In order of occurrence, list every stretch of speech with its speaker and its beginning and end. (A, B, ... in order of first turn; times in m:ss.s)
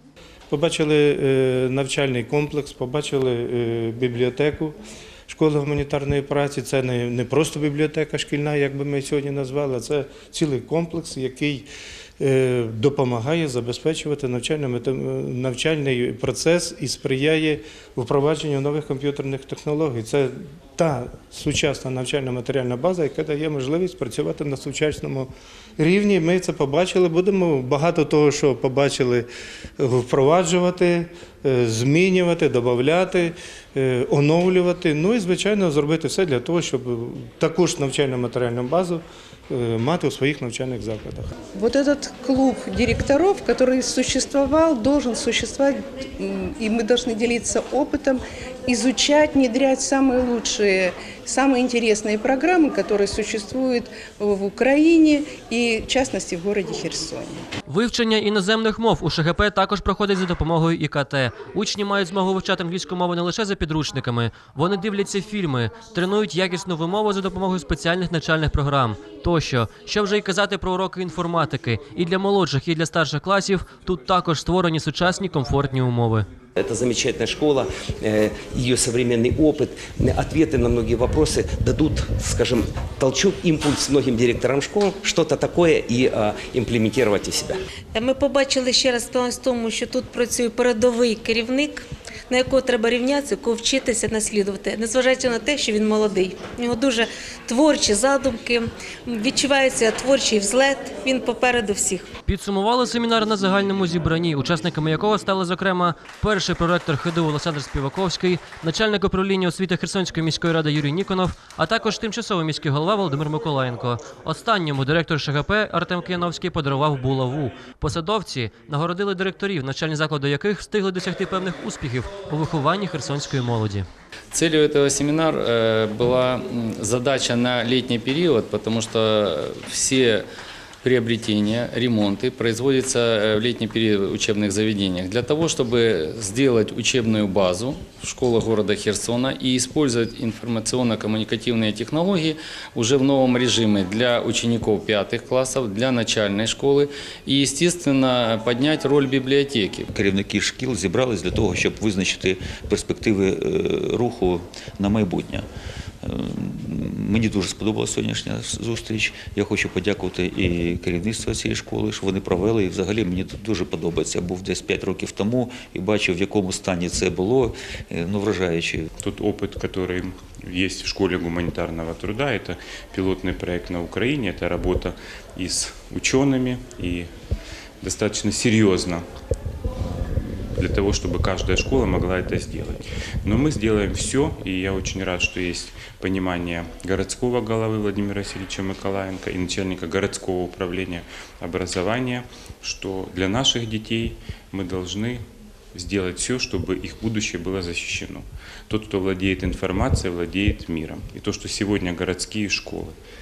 0:00.5-0:04.8 A
0:05.3-0:11.7 A
0:12.2-0:29.3 A
0:29.8-0:41.3 A
0:41.5-0:57.4 B
0:57.7-1:16.3 C
1:16.6-1:27.6 D
1:27.9-1:42.1 E
1:42.3-2:03.9 C
2:04.3-2:10.3 F
2:10.8-2:29.9 F
2:29.9-2:35.5 G
2:36.0-2:48.9 G
2:49.0-2:57.1 H
2:57.8-2:59.0 H
2:59.8-3:15.2 H
3:15.7-3:23.0 H